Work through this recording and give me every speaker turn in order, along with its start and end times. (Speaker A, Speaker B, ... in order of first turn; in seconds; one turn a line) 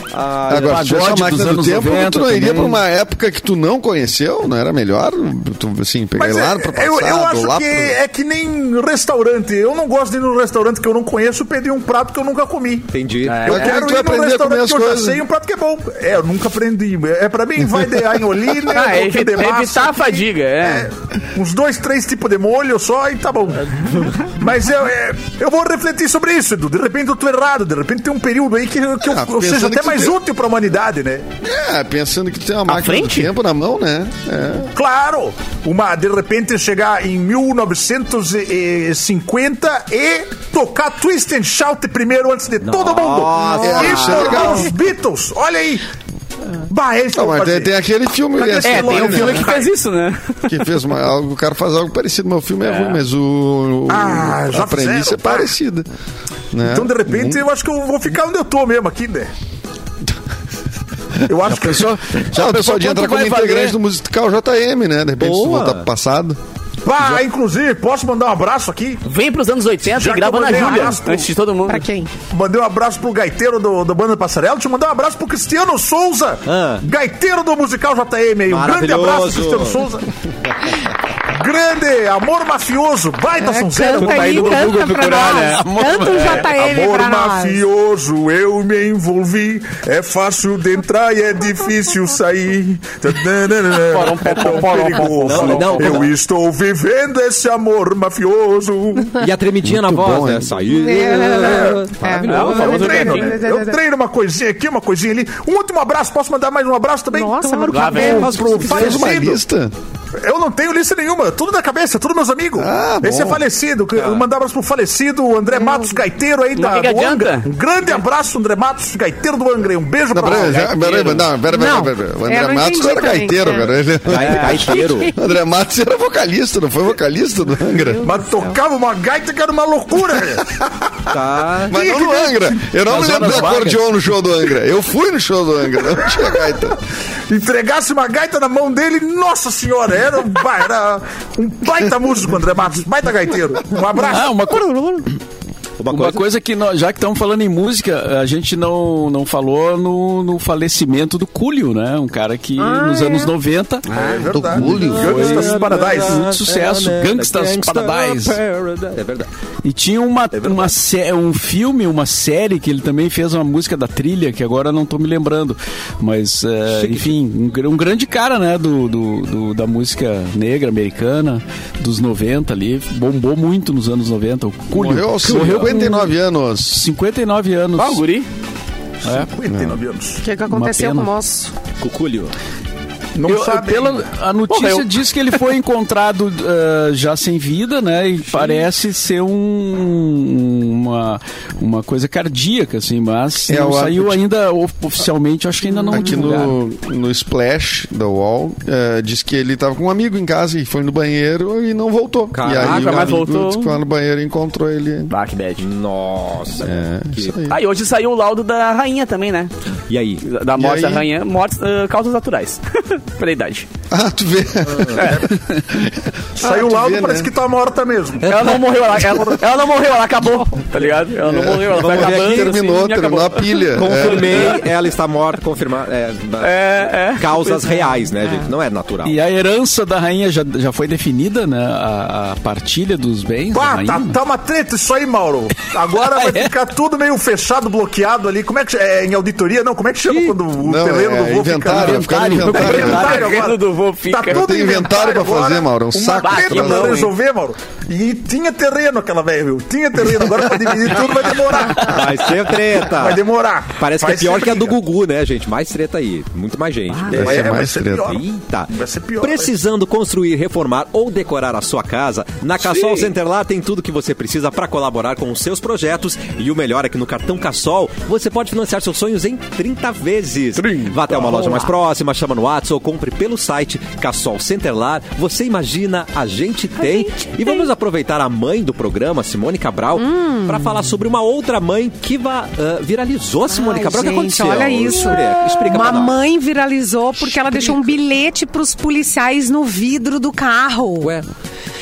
Speaker A: 0.1-0.9
Speaker B: 0.5-7.9
Speaker C: 0.5-2.8
Speaker D: 6.2-31.3
Speaker A: 12.9-13.5
Speaker E: 13.3-13.8
Speaker B: 13.4-15.2
Speaker E: 18.6-20.9
Speaker B: 29.0-30.1
Speaker B: 31.4-34.7
Speaker E: 32.6-33.3
Speaker D: 34.7-45.8
Speaker A: 42.6-44.6
Speaker F: 43.4-43.8
Speaker B: 43.6-44.6
Speaker D: 46.7-47.7
Speaker B: 47.1-49.5
Speaker D: 48.3-49.7
Speaker E: 48.6-50.2
Speaker B: 50.5-55.9
Speaker E: 52.6-53.0
Speaker D: 53.9-55.5
Speaker B: 56.5-57.4
Speaker D: 56.6-59.3
Speaker D: 61.3-61.9
Speaker C: 61.5-63.8
Speaker B: 62.3-66.4
Speaker A: 65.2-65.9
Speaker D: 66.8-69.0
Speaker E: 69.0-71.8
Speaker D: 69.9-71.3
Speaker F: 71.7-72.1
Speaker D: 72.3-80.0
Speaker A: 76.5-76.8
Speaker A: 78.5-79.8
Speaker D: 81.3-84.7
Speaker F: 83.4-87.6
Speaker E: 84.2-85.6
Speaker C: 84.4-86.5
Speaker D: 86.4-99.1
Speaker E: 93.8-96.1
Speaker A: 95.2-96.1
Speaker A: 99.2-103.3
Speaker B: 99.6-100.6
Speaker F: 100.7-103.8
Speaker D: 101.4-101.8
Speaker E: 102.3-103.4
Speaker D: 102.4-109.4
Speaker F: 107.1-108.6
Speaker E: 107.7-108.4
Speaker A: 108.0-109.1
Speaker B: 108.6-109.7
Speaker D: 110.2-120.9
Speaker B: 112.6-113.4
Speaker F: 115.5-116.0
Speaker E: 116.5-117.5
Speaker B: 120.1-128.0
Speaker E: 120.3-120.9
Speaker F: 121.5-123.7
Speaker A: 124.0-125.1
Speaker F: 124.3-125.2
Speaker F: 127.7-128.6
Speaker D: 128.0-131.1
Speaker A: 131.1-131.8
Speaker D: 131.7-132.5
Speaker B: 131.7-136.8
Speaker C: 132.9-133.8
Speaker D: 137.3-144.5
Speaker C: 144.0-145.2
Speaker A: 145.8-146.2
Speaker C: 145.9-153.9
Speaker F: 152.6-153.3
Speaker D: 153.9-156.2
Speaker E: 153.9-154.2
Speaker B: 154.3-155.1
Speaker A: 154.6-159.3
Speaker C: 154.7-158.4
Speaker C: 159.6-176.1
Speaker A: 160.4-160.7
Speaker A: 166.7-167.1
Speaker B: 174.7-176.8
Speaker C: 176.7-178.0
Speaker E: 177.8-178.3
Speaker D: 179.0-180.2
Speaker C: 179.0-179.3
Speaker B: 179.5-179.7
Speaker F: 180.2-181.5
Speaker C: 180.4-181.1
Speaker A: 181.8-182.3
Speaker D: 183.1-184.1
Speaker C: 183.2-196.6
Speaker E: 184.5-184.9
Speaker B: 193.5-194.2
Speaker B: 195.9-205.1
Speaker A: 202.3-203.2
Speaker E: 202.5-203.8
Speaker E: 205.1-205.6
Speaker A: 205.6-207.5
Speaker B: 206.6-207.6
Speaker E: 207.5-209.5
Speaker A: 209.9-210.2
Speaker E: 210.2-213.7
Speaker B: 210.6-211.1
Speaker B: 213.9-217.3
Speaker D: 215.0-215.3
Speaker D: 216.4-218.4
Speaker E: 218.2-224.6
Speaker B: 221.2-224.5
Speaker A: 221.7-222.7
Speaker A: 223.7-229.2
Speaker E: 226.4-228.0
Speaker C: 229.0-234.2
Speaker D: 233.5-252.3
Speaker C: 236.2-236.4
Speaker B: 240.6-243.3
Speaker C: 241.7-243.0
Speaker E: 241.9-244.4
Speaker B: 244.2-247.1
Speaker E: 246.2-247.1
Speaker A: 251.7-253.2
Speaker D: 252.8-254.7
Speaker A: 253.8-286.2
Speaker D: 257.1-259.5
Speaker B: 257.1-258.2
Speaker E: 262.6-263.1
Speaker E: 270.9-271.7
Speaker F: 276.8-277.6
Speaker F: 279.9-280.8
Speaker F: 283.5-291.1
Speaker A: 287.2-288.0
Speaker A: 291.0-291.2